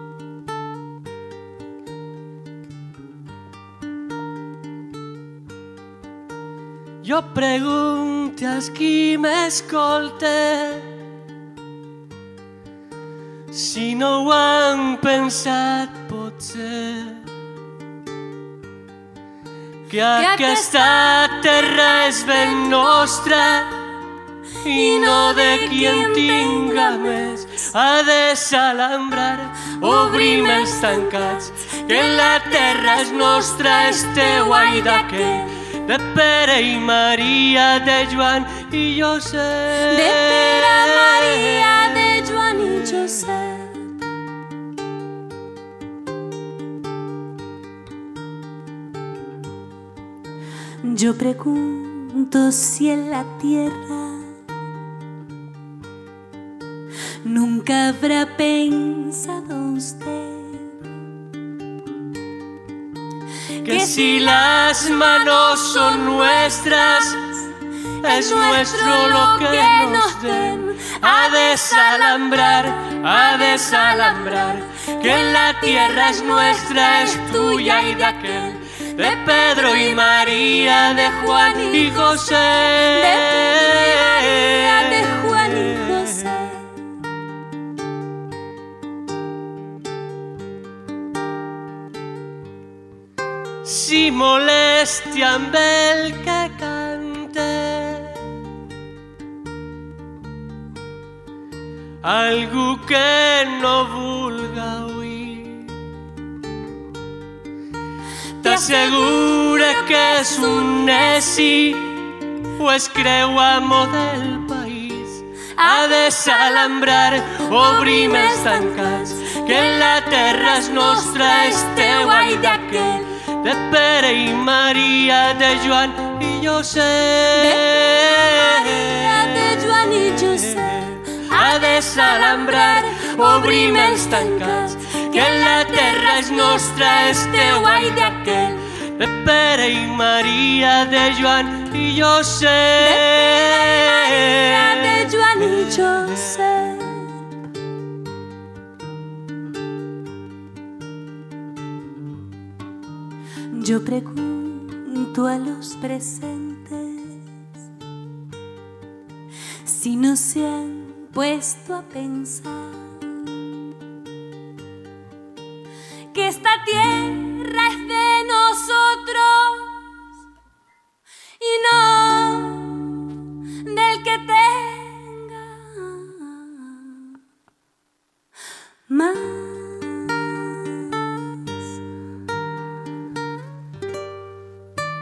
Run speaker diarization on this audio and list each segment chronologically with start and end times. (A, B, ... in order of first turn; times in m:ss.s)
0:07.0-0:11.0 A
0:13.5-0:17.3 A
0:19.9-0:23.8 A
0:20.1-0:21.2 B
0:22.1-0:23.2 B
0:24.6-0:42.2 A
0:24.7-0:27.4 B
0:29.8-0:35.7 B
0:39.8-0:43.9 B
0:42.7-0:43.0 A
0:50.8-0:54.4 B
0:57.2-1:00.8 B
1:03.6-1:07.4 A
1:03.6-1:07.1 B
1:08.0-1:12.7 B
1:08.0-1:26.2 A
1:13.2-1:26.8 B
1:33.6-1:38.4 A
1:42.0-1:45.8 A
1:48.4-1:51.5 B
1:48.4-2:09.7 A
1:55.6-1:56.7 B
1:57.4-2:03.2 B
2:07.3-2:18.7 B
2:10.5-2:26.4 A
2:22.8-2:27.2 B
2:33.5-2:37.2 B
2:39.6-2:43.0 B
2:46.1-2:50.0 B
2:51.4-2:53.1 B
2:53.6-2:57.1 B
2:58.9-3:01.0 B